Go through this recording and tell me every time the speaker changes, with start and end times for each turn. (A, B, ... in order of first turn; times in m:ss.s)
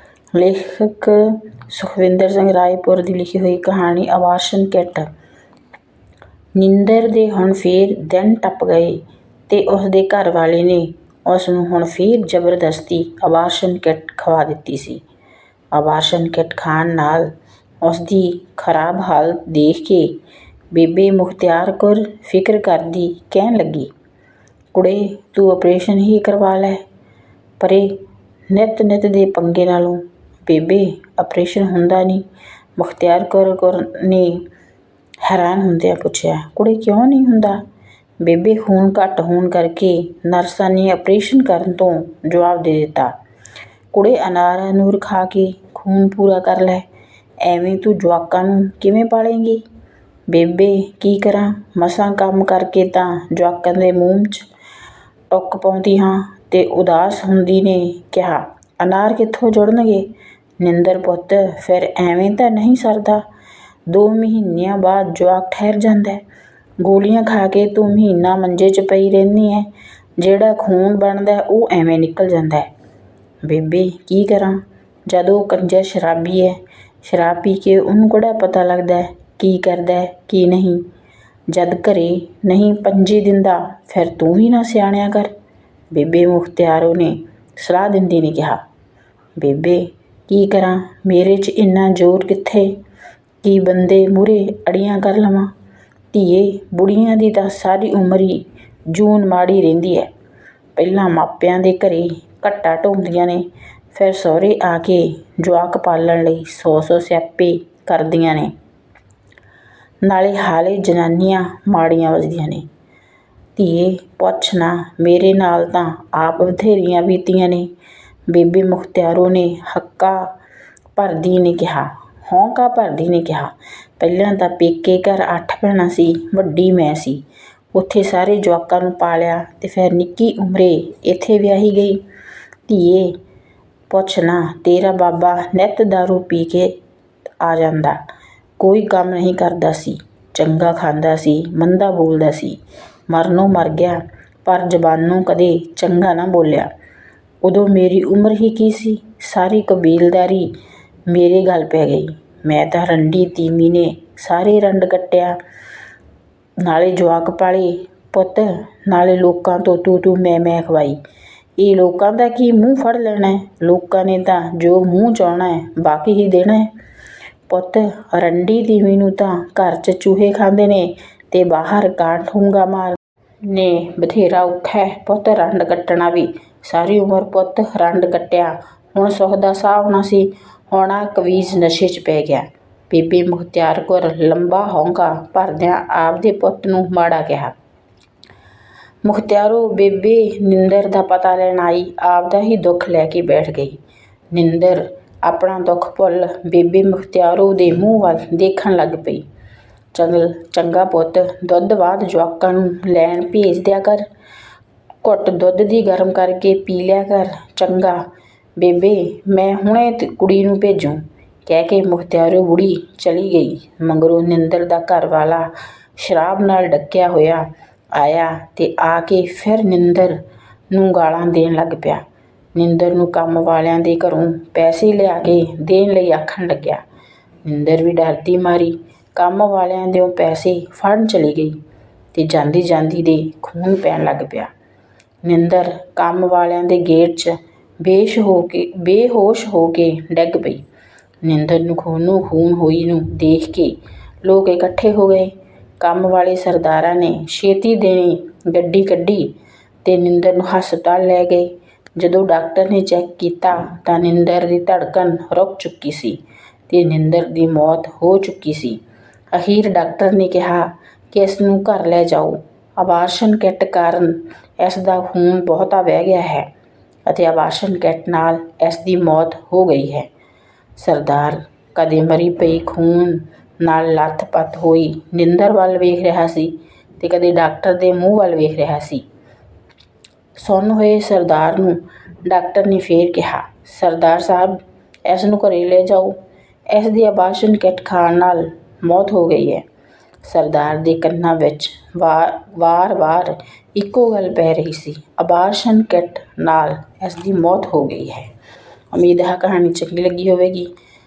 0:00.3-0:05.1 A
0:06.6-0:15.0 A
0:15.7-0:20.2 A
0:20.7-0:23.9 A
0:24.7-0:26.8 A
0:27.6-0:34.5 A
0:35.2-0:37.6 A
0:38.2-0:43.2 A
0:43.9-0:46.9 A
0:47.4-0:49.6 A
0:50.3-0:54.5 A
0:55.3-1:03.2 A
1:03.9-1:06.2 A
1:06.8-1:12.7 A
1:13.4-1:20.9 A
1:21.5-1:25.3 A
1:25.9-1:28.6 A
1:29.4-1:32.8 A
1:33.4-1:35.5 A
1:36.1-1:40.1 A
1:40.8-1:48.5 A
1:50.0-1:52.7 A
1:53.6-1:57.7 A
1:58.3-2:00.3 A
2:01.0-2:12.0 A
2:12.7-2:13.2 A
2:13.9-2:16.8 A
2:17.4-2:18.0 A
2:18.6-2:26.7 A
2:27.4-2:30.5 A
2:31.1-2:35.4 A
2:36.6-2:41.0 A
2:41.6-2:46.7 A
2:47.5-3:07.6 A
3:09.0-3:13.8 A
3:14.3-3:19.2 A
3:19.9-3:24.1 A
3:25.0-3:46.8 A
3:47.4-3:51.6 A
3:52.1-3:54.5 A
3:55.2-4:00.7 A
4:01.2-4:18.8 A
4:19.3-4:26.5 A
4:27.1-4:30.1 A
4:30.8-4:39.0 A
4:40.4-4:49.6 A
4:50.2-4:58.3 A
4:58.9-5:00.7 A